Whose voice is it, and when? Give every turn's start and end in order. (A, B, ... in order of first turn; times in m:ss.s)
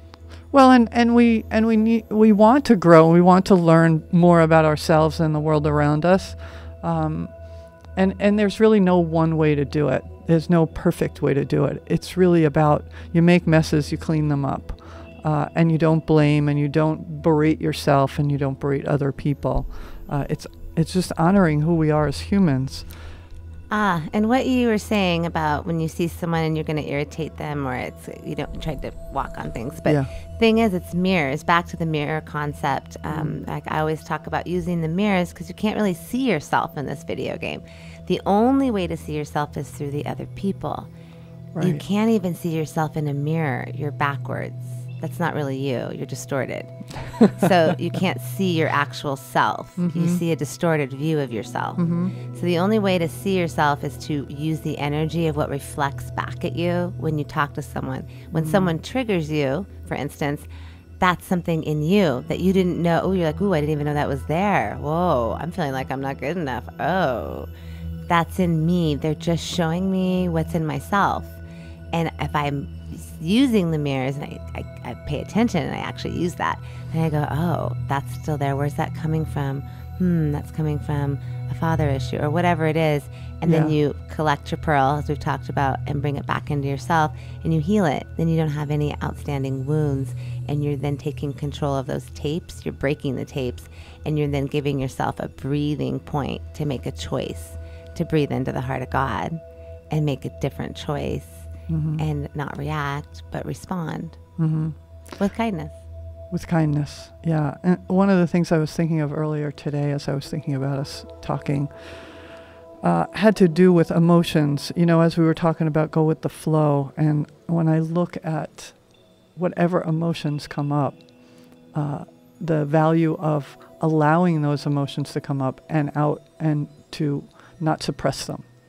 0:00.5-0:22.9 A
0:23.7-0:40.9 B
0:33.1-0:33.4 A
0:41.5-0:41.8 A
0:41.6-1:00.5 B
0:49.8-0:50.2 A
0:51.8-0:52.1 A
0:58.3-0:58.8 A
1:01.0-1:07.5 B
1:08.1-1:11.4 B
1:11.9-1:44.2 B
1:23.4-1:23.7 A
1:41.7-1:42.0 A
1:44.4-1:44.8 A
1:45.1-1:45.8 B
1:46.3-2:08.5 A